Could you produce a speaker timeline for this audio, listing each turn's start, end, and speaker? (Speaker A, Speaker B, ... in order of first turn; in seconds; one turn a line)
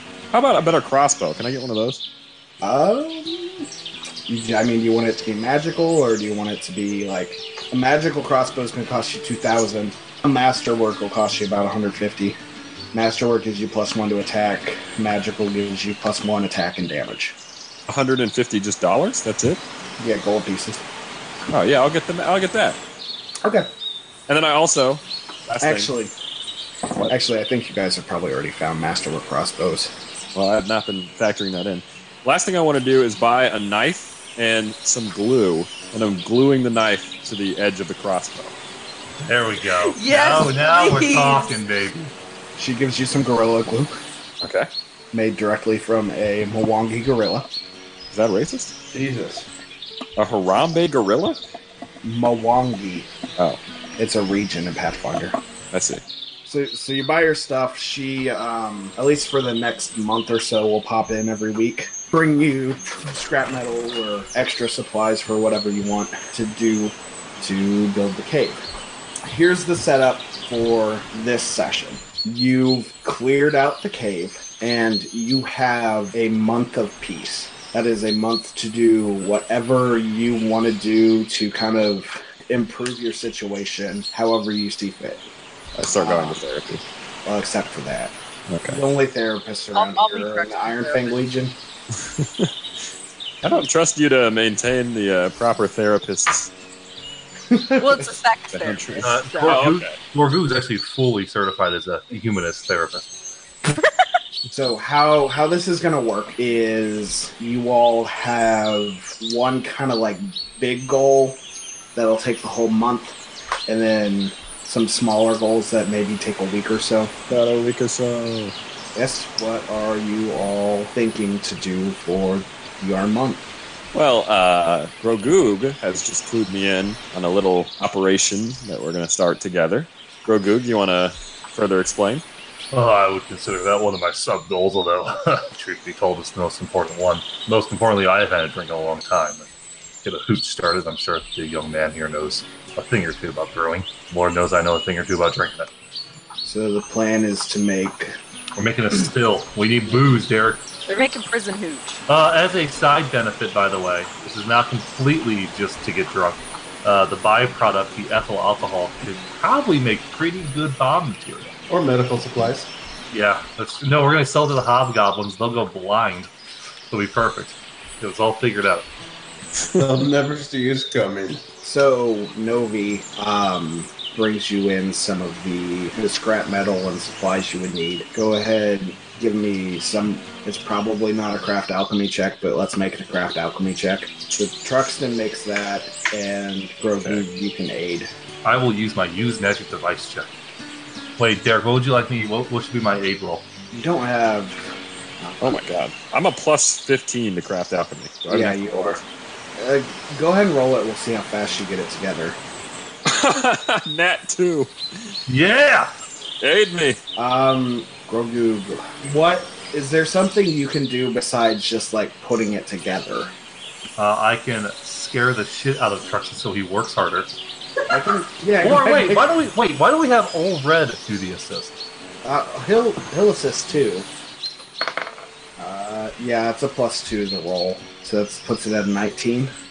Speaker A: 0.3-2.0
Speaker B: 2.6-3.7
Speaker B: 4.3-12.4
Speaker B: 12.9-17.4
Speaker A: 17.9-19.6
Speaker B: 20.0-20.8
Speaker A: 21.5-22.8
Speaker B: 23.4-23.7
Speaker A: 24.3-25.9
Speaker B: 25.6-26.1
Speaker B: 27.1-29.9
Speaker A: 30.4-38.5
Speaker C: 39.2-42.1
Speaker D: 39.9-41.5
Speaker B: 42.6-44.0
Speaker A: 44.4-44.7
Speaker B: 45.1-47.5
Speaker A: 48.1-48.7
Speaker E: 48.9-49.5
Speaker A: 50.2-51.4
Speaker B: 52.0-53.1
Speaker B: 54.0-55.4
Speaker A: 55.7-56.0
Speaker B: 56.5-68.6
Speaker B: 69.2-85.2
Speaker A: 85.8-86.8
Speaker B: 85.9-86.4
Speaker B: 87.2-88.2
Speaker A: 88.5-88.8
Speaker B: 88.7-91.6
Speaker D: 89.7-91.2
Speaker A: 92.0-92.5
Speaker A: 93.4-96.5
Speaker B: 97.5-98.0
Speaker D: 97.8-99.6
Speaker A: 98.5-100.0
Speaker C: 99.0-103.1
Speaker B: 104.5-111.4
Speaker B: 112.0-117.2
Speaker A: 117.3-118.5
Speaker B: 119.0-123.4
Speaker A: 123.9-132.2
Speaker C: 132.7-139.5
Speaker C: 140.1-145.7
Speaker B: 146.4-148.2
Speaker C: 148.6-150.7
Speaker D: 150.9-152.0
Speaker C: 152.1-161.5
Speaker E: 161.7-162.7
Speaker C: 163.1-166.3
Speaker C: 166.9-168.9
Speaker E: 169.7-171.4
Speaker B: 171.6-188.1
Speaker C: 188.4-190.3
Speaker C: 191.2-193.5
Speaker B: 193.7-195.6
Speaker A: 195.4-199.0
Speaker B: 198.3-199.0
Speaker B: 199.6-202.4
Speaker A: 203.1-204.7
Speaker C: 205.3-205.9
Speaker A: 206.4-207.0
Speaker B: 207.2-213.3
Speaker C: 214.0-217.3
Speaker B: 217.9-219.3
Speaker C: 218.6-221.8
Speaker B: 222.2-224.1
Speaker B: 225.6-229.5